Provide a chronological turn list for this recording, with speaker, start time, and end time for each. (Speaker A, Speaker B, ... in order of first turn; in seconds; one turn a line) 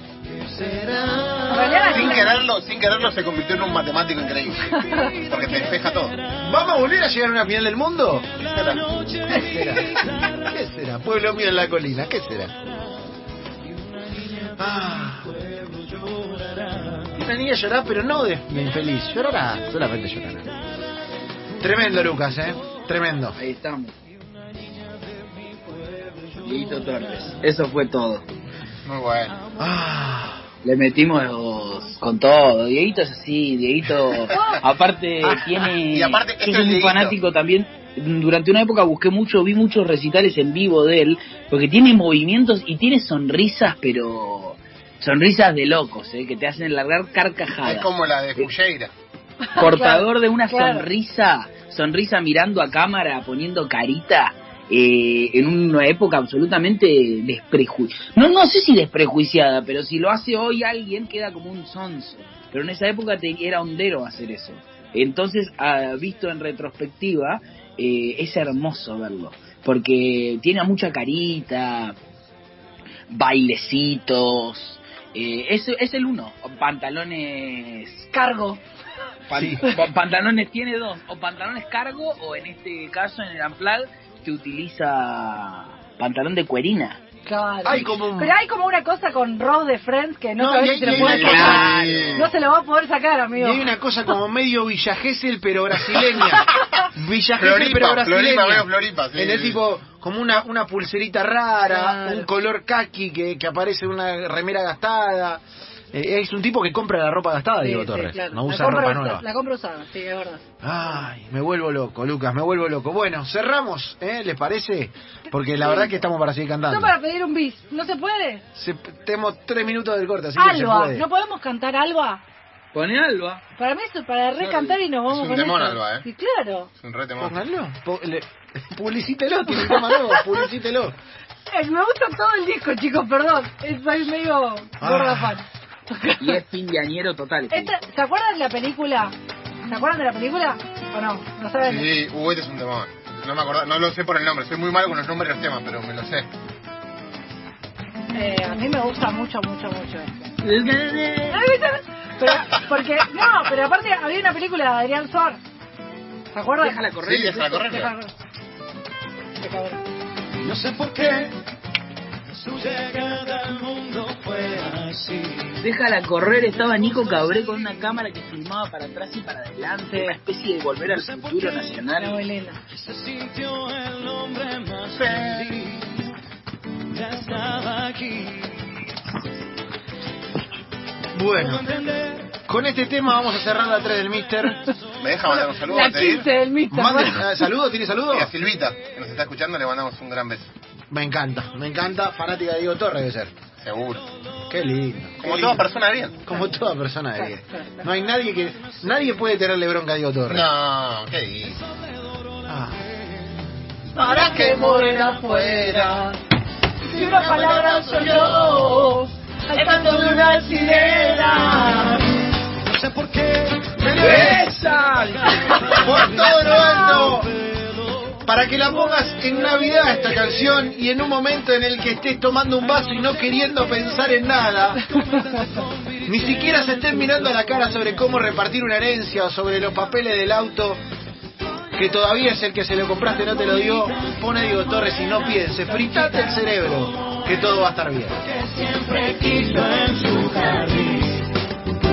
Speaker A: 0.4-1.7
Speaker B: 0.6-2.3
Speaker C: 1.5-2.4
Speaker D: 1.8-6.1
Speaker A: 4.7-6.7
Speaker C: 4.7-5.1
Speaker B: 6.4-8.3
Speaker A: 8.3-10.5
Speaker D: 8.4-9.0
Speaker B: 9.3-12.5
Speaker A: 13.7-17.1
Speaker B: 14.6-15.5
Speaker B: 17.1-20.4
Speaker B: 21.6-23.4
Speaker A: 22.0-22.8
Speaker E: 23.4-23.9
Speaker A: 24.3-27.3
Speaker E: 26.4-28.2
Speaker D: 28.8-29.4
Speaker B: 29.6-30.4
Speaker E: 30.6-48.5
Speaker C: 34.3-34.6
Speaker D: 35.8-37.2
Speaker D: 47.6-48.9
Speaker C: 49.5-50.9
Speaker E: 49.5-72.0
Speaker E: 73.1-78.1
Speaker C: 78.1-78.6
Speaker E: 79.3-87.0
Speaker B: 79.3-79.6
Speaker C: 87.2-93.7
Speaker B: 87.6-88.3
Speaker B: 90.4-91.8
Speaker D: 90.8-92.3
Speaker E: 91.0-92.3
Speaker B: 93.3-109.2
Speaker D: 97.4-99.6
Speaker C: 101.7-102.2
Speaker C: 107.6-110.4
Speaker B: 110.6-117.0
Speaker C: 116.7-118.4
Speaker B: 118.5-121.0
Speaker C: 120.4-122.2
Speaker E: 122.7-123.4
Speaker C: 123.6-126.7
Speaker D: 124.4-126.1
Speaker D: 126.8-127.4
Speaker B: 127.2-130.9
Speaker C: 129.5-130.3
Speaker C: 131.5-136.4
Speaker B: 134.8-135.4
Speaker E: 136.2-137.7
Speaker C: 137.5-139.1
Speaker C: 139.7-141.9
Speaker D: 141.6-146.3
Speaker C: 148.1-150.3
Speaker E: 150.4-151.5
Speaker C: 151.3-155.4
Speaker C: 156.3-158.1
Speaker E: 156.6-157.6
Speaker D: 157.0-157.9
Speaker C: 159.4-159.8
Speaker A: 160.4-161.4
Speaker A: 162.3-165.6
Speaker E: 165.6-172.2
Speaker A: 166.5-167.7
Speaker A: 170.8-171.8
Speaker C: 171.8-172.6
Speaker A: 172.7-176.0
Speaker D: 174.9-175.6
Speaker A: 176.9-178.6
Speaker B: 181.1-181.6
Speaker A: 181.3-182.4
Speaker B: 182.5-184.6
Speaker D: 185.0-186.3
Speaker C: 185.3-187.3
Speaker B: 186.7-188.3
Speaker D: 188.1-190.5
Speaker B: 190.9-193.3
Speaker D: 193.6-194.1
Speaker B: 194.5-195.7
Speaker D: 195.2-196.2
Speaker B: 196.2-200.5
Speaker C: 197.2-197.8
Speaker D: 200.3-201.6
Speaker B: 202.5-202.8
Speaker C: 203.9-206.1
Speaker D: 204.3-204.6
Speaker C: 206.9-211.9
Speaker D: 207.1-208.6
Speaker A: 210.3-210.7
Speaker A: 212.5-218.2
Speaker B: 213.8-214.6
Speaker E: 213.9-215.8
Speaker B: 215.8-217.3
Speaker C: 216.5-217.1
Speaker B: 218.2-224.8
Speaker C: 224.9-225.3
Speaker A: 225.0-228.5
Speaker B: 226.0-230.8
Speaker B: 231.7-238.2
Speaker A: 233.2-237.7
Speaker A: 238.2-241.3